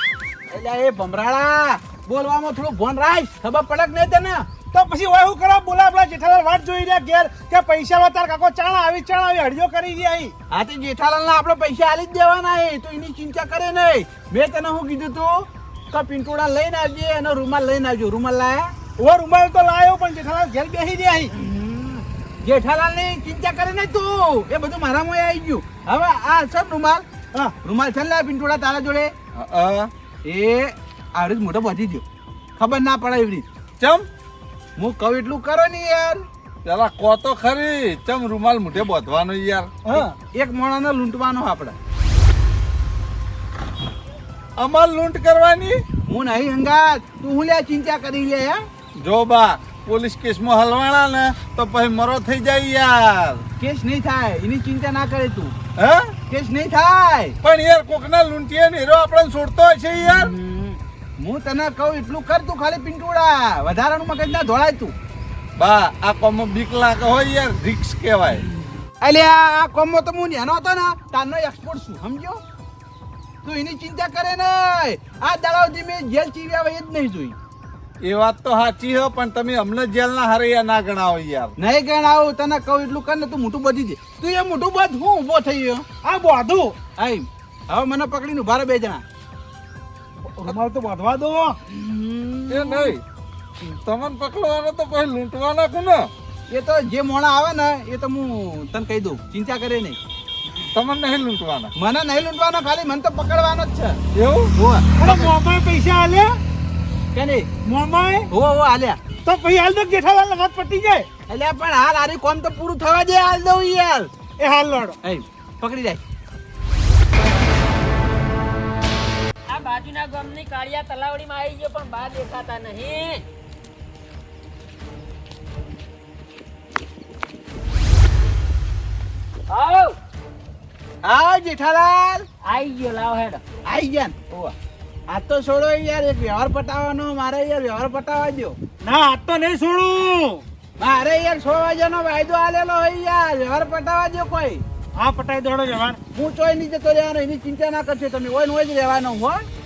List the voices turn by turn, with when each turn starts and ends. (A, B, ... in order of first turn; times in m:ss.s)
0:00.5-0:04.5 A
0:04.7-0:10.3 B
0:10.5-0:18.7 A
0:19.0-0:21.3 B
0:21.3-0:27.0 A
0:27.6-0:29.1 A
0:29.3-0:29.9 C
0:30.3-0:32.0 A
0:32.6-0:33.5 A
0:33.8-0:34.1 C
0:34.8-0:36.2 A
0:36.6-0:40.0 C
0:39.9-0:41.8 A
0:44.6-0:45.8 C
0:46.1-0:48.6 A
0:49.0-0:53.4 C
0:53.6-0:55.6 A
0:55.8-0:56.2 C
0:56.3-0:57.4 A
0:57.4-1:00.3 C
1:00.0-1:04.9 A
1:05.6-1:08.5 C
1:09.0-1:12.4 A
1:13.4-1:17.4 A
1:18.0-1:21.5 C
1:21.6-1:25.9 A
1:26.0-1:26.8 B
1:27.0-1:29.0 A
1:30.2-1:31.6 B
1:31.7-1:33.0 A
1:32.5-1:33.0 C
1:33.6-1:36.1 C
1:36.5-1:40.0 A
1:40.7-1:41.7 C
1:41.8-1:44.0 A
1:44.1-1:44.5 C
1:44.6-1:45.3 A
1:45.0-1:46.4 B
1:47.1-1:47.6 A
1:47.6-1:48.3 B
1:48.3-1:49.0 A
1:49.2-1:51.1 B
1:51.3-1:54.1 A
1:54.4-1:55.0 B
1:55.0-1:56.0 A
1:59.5-2:03.2 D
2:09.5-2:10.0 D
2:11.0-2:12.3 A
2:12.5-2:13.4 D
2:13.7-2:14.5 A
2:15.1-2:18.6 A
2:18.8-2:20.4 B
2:20.8-2:24.6 A
2:25.0-2:26.0 B
2:26.1-2:29.4 A